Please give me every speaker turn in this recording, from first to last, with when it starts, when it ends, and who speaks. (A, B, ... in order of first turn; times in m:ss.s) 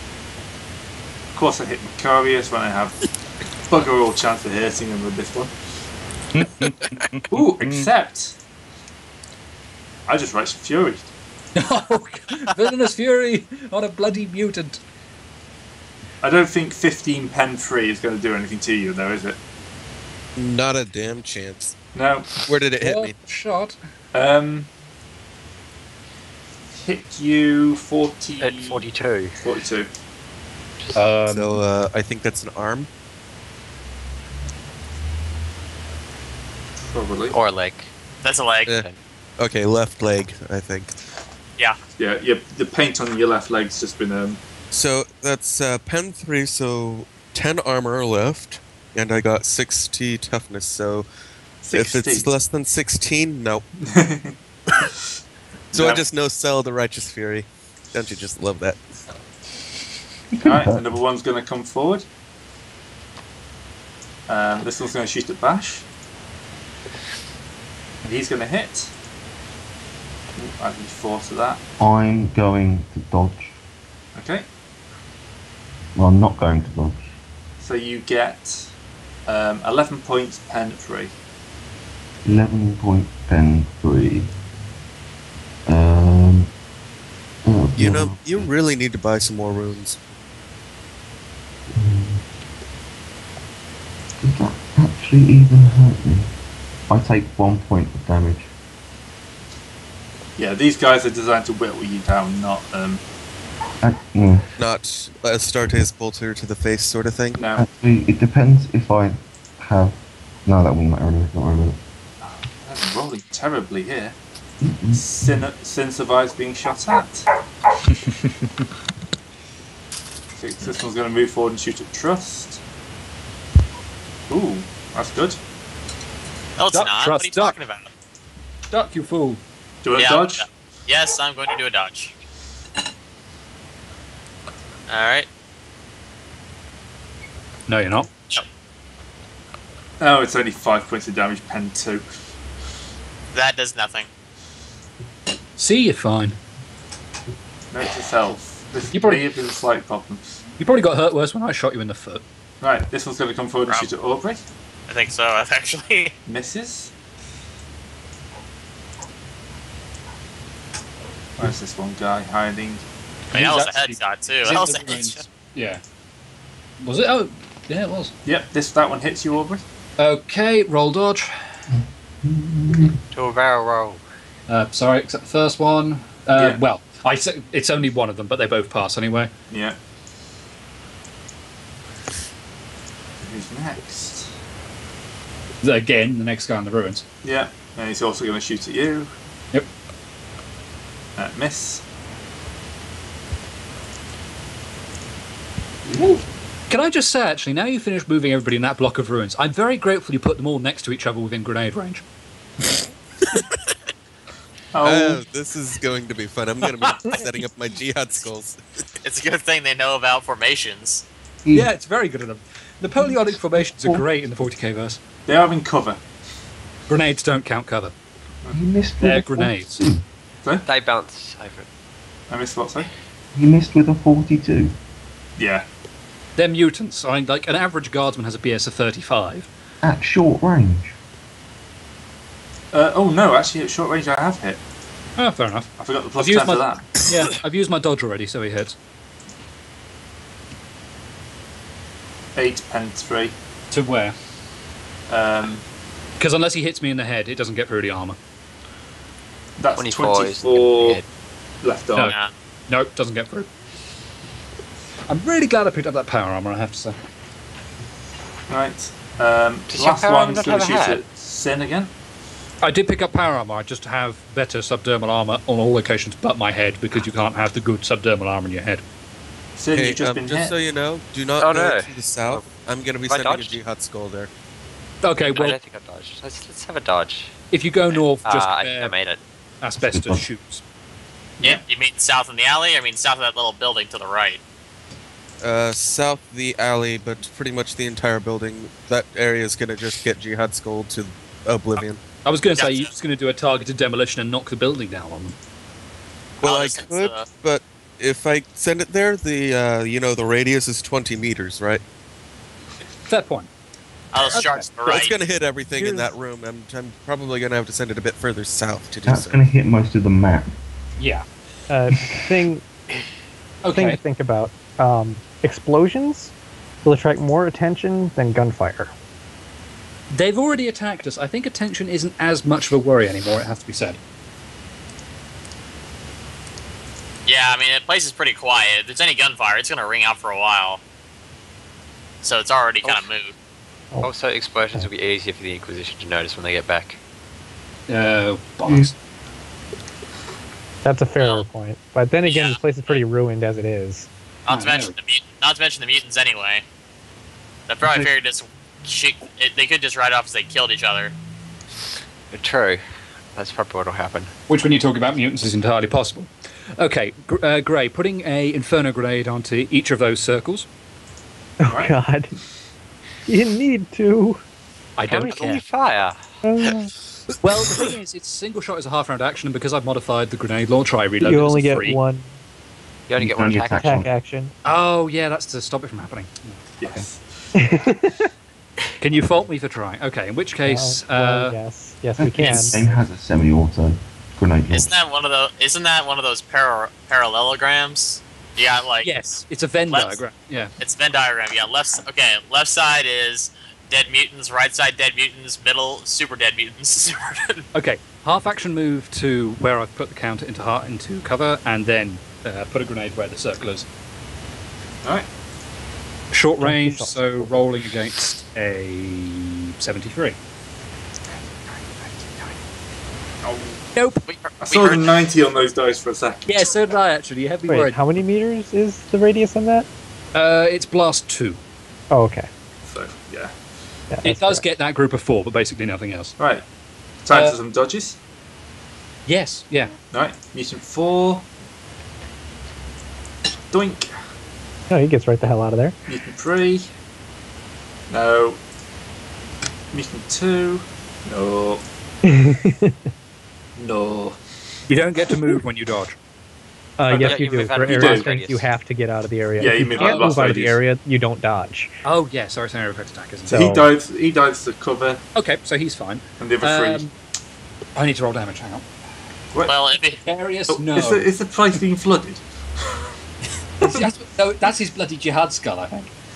0:01.4-0:03.0 A
0:03.7-0:05.5 A
0:06.3-0:07.9 B
0:06.6-0:06.9 C
0:07.3-0:08.4 A
0:10.1-0:11.1 A
0:11.6-0:14.8 B
0:16.2-0:19.4 A
0:20.4-0:21.8 C
0:22.0-0:22.5 A
0:22.5-0:23.2 C
0:22.8-0:23.8 B
0:24.1-0:24.7 A
0:26.7-0:28.9 A
0:28.4-0:29.4 D
0:29.4-0:29.9 A
0:31.0-0:31.6 B
0:31.3-0:32.9 C
0:36.8-0:37.4 A
0:37.3-0:37.9 D
0:38.2-0:38.7 E
0:38.7-0:39.0 D
0:39.4-0:41.0 C
0:42.0-0:44.4 A
0:44.7-0:51.1 C
0:51.6-0:52.3 A
0:51.7-0:53.7 C
0:53.8-0:54.3 A
0:55.7-0:56.0 A
0:55.7-0:58.8 C
1:00.4-1:01.0 F
1:00.4-1:02.1 A
1:04.3-1:05.9 A
1:08.0-1:08.9 A
1:10.4-1:11.6 A
1:11.8-1:13.6 F
1:14.2-1:14.5 A
1:16.0-1:17.1 F
1:17.6-1:18.7 A
1:19.3-1:21.2 A
1:22.2-1:24.3 F
1:25.7-1:26.5 F
1:27.4-1:28.5 F
1:27.8-1:30.0 C
1:31.7-1:32.2 F
1:34.2-1:36.3 F
1:36.9-1:38.5 F
1:40.4-1:43.0 A
1:43.8-1:44.5 F
1:44.6-1:47.5 C
1:47.4-1:47.6 A
1:47.6-1:51.8 F
1:52.5-1:54.2 A
1:54.6-1:55.5 F
1:54.9-1:57.3 A
2:00.4-2:02.6 A
2:04.3-2:05.4 A
2:06.6-2:07.9 E
2:06.7-2:07.6 B
2:08.7-2:09.4 B
2:09.8-2:10.5 A
2:10.0-2:12.2 E
2:14.9-2:15.3 E
2:17.7-2:18.1 B
2:20.0-2:22.1 A
2:23.3-2:24.1 E
2:25.6-2:26.4 B
2:27.7-2:30.4 A
2:28.9-2:29.3 B
2:30.6-2:32.2 B
2:32.6-2:34.4 A
2:34.9-2:36.1 E
2:36.3-2:36.9 A
2:41.4-2:42.8 A
2:43.3-2:45.8 B
2:43.3-2:45.2 E
2:46.8-2:48.1 B
2:48.2-2:49.6 A
2:50.0-2:51.6 B
2:52.2-2:53.0 F
2:53.1-2:54.0 D
2:54.5-2:59.3 B
2:56.4-2:56.6 A
2:59.5-2:59.8 A
3:03.2-3:04.3 A
3:05.6-3:07.0 B
3:07.2-3:09.1 A
3:11.2-3:11.8 A
3:15.9-3:16.2 F
3:16.7-3:22.0 B
3:24.7-3:25.2 A
3:24.8-3:28.9 C
3:26.7-3:27.2 B
3:29.0-3:31.0 E
3:31.4-3:31.7 F
3:31.5-3:35.0 B
3:33.0-3:34.1 F
3:35.3-3:36.0 A
3:36.9-3:38.0 B
3:38.5-3:40.0 F
3:39.0-3:39.8 B
3:40.6-3:41.7 D
3:42.3-3:42.9 A
3:43.3-3:44.8 F
3:45.4-3:45.7 A
3:46.4-3:49.5 B
3:49.8-3:51.0 F
3:52.7-3:54.6 A
3:55.2-3:58.8 B
3:55.8-3:57.0 A
4:02.4-4:03.4 A
4:03.7-4:04.2 B
4:05.1-4:05.6 A
4:06.2-4:08.2 B
4:09.6-4:11.0 A
4:09.8-4:11.0 D
4:11.6-4:12.2 A
4:12.0-4:12.3 E
4:12.7-4:13.5 B
4:15.1-4:17.0 B
4:18.5-4:21.9 A
4:19.7-4:21.0 D
4:22.6-4:28.8 B
4:29.6-4:30.6 A
4:29.7-4:34.3 C
4:31.4-4:33.6 D
4:35.0-4:35.6 B
4:35.2-4:37.4 D
4:37.5-4:38.9 B
4:37.9-4:39.2 D
4:39.6-4:40.6 B
4:39.9-4:40.3 F
4:41.4-4:44.4 E
4:45.4-4:52.0 C
4:51.8-4:55.4 B
4:52.6-4:52.9 E
4:56.4-4:57.3 E
4:56.4-5:01.8 C
5:03.1-5:03.5 B
5:04.1-5:05.2 E
5:04.2-5:05.0 B
5:04.9-5:09.4 C
5:05.7-5:06.1 B
5:09.1-5:10.6 F
5:11.0-5:11.3 B
5:11.7-5:12.6 G
5:13.6-5:14.0 B
5:13.7-5:18.9 G
5:20.1-5:24.0 B
5:27.3-5:30.8 E
5:32.2-5:33.3 E
5:32.8-5:33.1 D
5:34.0-5:37.0 D
5:37.9-5:39.0 B
5:38.7-5:38.9 F
5:40.8-5:44.1 G
5:41.2-5:41.5 E
5:42.3-5:43.0 E
5:44.5-5:46.6 E
5:44.5-5:45.0 B
5:47.7-5:51.1 E
5:47.8-5:48.1 F
5:52.3-5:52.8 D
5:53.3-5:54.3 D
5:54.5-6:00.7 B
6:01.6-6:02.3 G
6:01.7-6:02.0 A
6:03.3-6:04.4 G
6:05.0-6:05.6 B
6:05.1-6:06.2 D
6:05.3-6:05.6 E
6:06.4-6:06.9 G
6:07.4-6:12.0 B
6:11.2-6:12.3 G
6:13.1-6:14.0 D
6:13.2-6:14.1 F
6:13.8-6:14.5 G
6:14.6-6:17.0 B
6:16.8-6:17.3 A
6:17.6-6:18.3 G
6:19.0-6:21.6 B
6:20.6-6:22.9 G
6:22.2-6:24.9 F
6:24.7-6:29.3 E
6:29.0-6:30.7 B
6:29.9-6:30.2 E
6:30.8-6:37.7 E
6:37.7-6:43.9 B
6:46.3-6:50.4 B
6:46.6-6:47.6 G
6:53.4-6:53.8 A
6:54.0-6:54.2 B
6:54.3-6:55.1 E
6:54.6-6:56.8 A
6:56.5-6:58.0 B
6:57.7-6:59.9 G
7:00.3-7:01.6 B
7:02.1-7:02.5 G
7:02.9-7:03.6 A
7:04.1-7:04.6 G
7:04.2-7:06.4 B
7:06.4-7:06.7 A
7:07.2-7:08.2 A
7:07.3-7:07.6 B
7:09.3-7:09.9 B
7:10.1-7:11.5 A
7:13.7-7:14.1 A
7:14.9-7:16.0 G
7:16.1-7:16.9 A
7:18.1-7:18.6 A
7:19.9-7:21.8 A
7:22.2-7:23.0 G
7:23.8-7:24.4 A
7:24.9-7:26.2 B
7:27.0-7:31.9 G
7:27.1-7:28.3 A
7:27.2-7:28.7 D
7:29.6-7:30.8 A
7:30.0-7:30.4 B
7:32.0-7:33.8 B
7:33.5-7:35.2 A
7:33.5-7:33.8 G
7:35.4-7:37.1 B
7:36.4-7:37.1 A
7:38.0-7:38.8 B
7:39.5-7:39.8 A
7:39.7-7:40.2 E
7:40.1-7:41.3 B
7:40.7-7:43.0 A
7:43.8-7:46.1 B